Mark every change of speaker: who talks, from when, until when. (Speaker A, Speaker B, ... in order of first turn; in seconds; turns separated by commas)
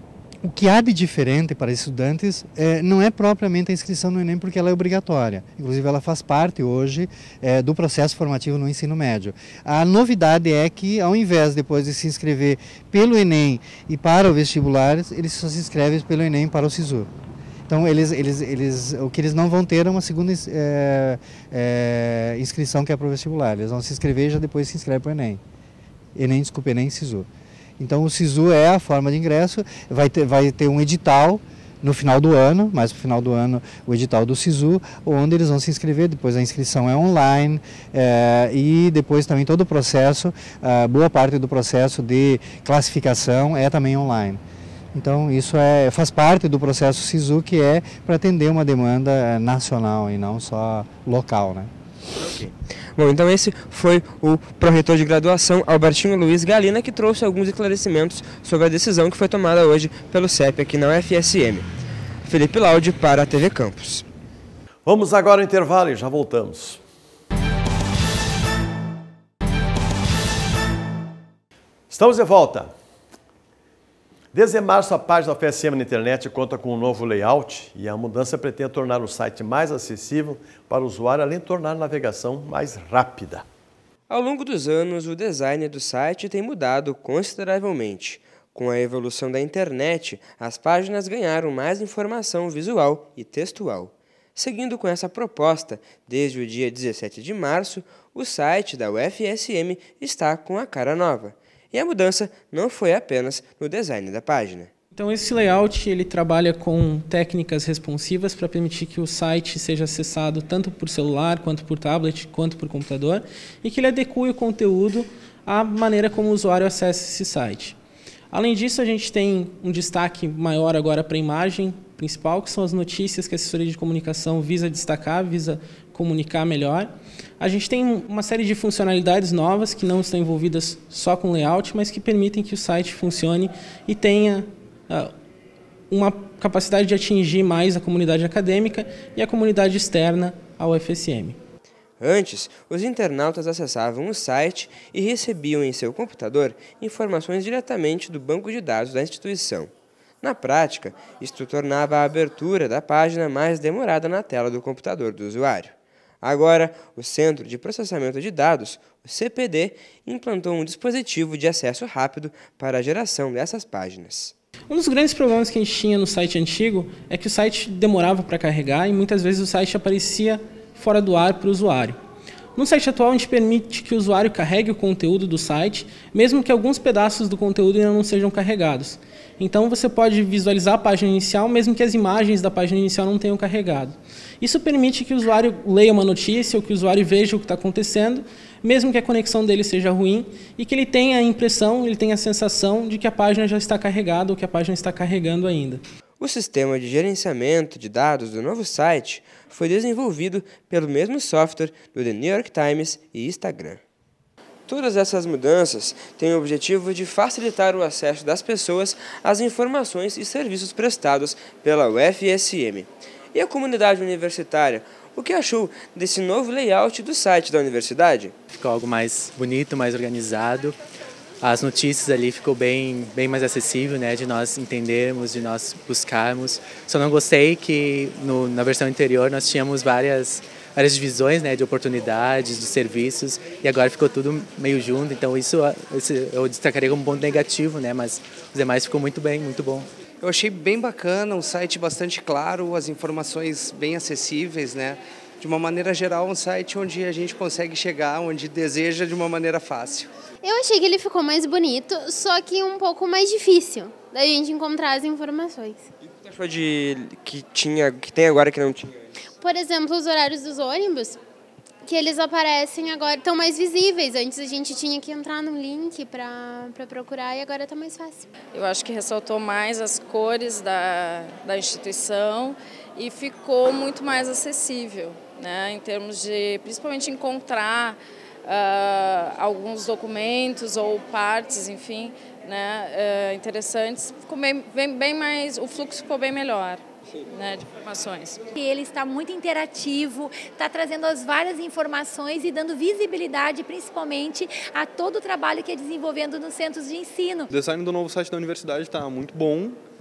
Speaker A: 0.4-17.1, Speaker A: 17.7-25.4, Speaker A: 26.2-27.3, Speaker A: 27.8-44.4, Speaker A: 44.9-51.7, Speaker B: 52.2-61.7, Speaker B: 62.2-64.1, Speaker C: 64.9-66.8, Speaker C: 71.9-72.7, Speaker C: 74.3-83.5, Speaker B: 84.1-104.7, Speaker D: 105.0-117.8, Speaker D: 118.3-135.1, Speaker D: 135.9-141.4, Speaker B: 142.0-149.7, Speaker B: 150.2-164.3, Speaker D: 164.7-172.0, Speaker D: 172.6-195.8, Speaker B: 196.2-203.8, Speaker B: 204.7-218.3, Speaker E: 218.5-220.8, Speaker E: 221.4-239.9, Speaker F: 240.2-250.1, Speaker G: 250.4-255.9, Speaker B: 256.2-258.9, Speaker G: 259.4-261.2, Speaker G: 261.9-268.3, Speaker H: 268.5-288.4, Speaker I: 288.5-297.5, Speaker J: 297.5-299.8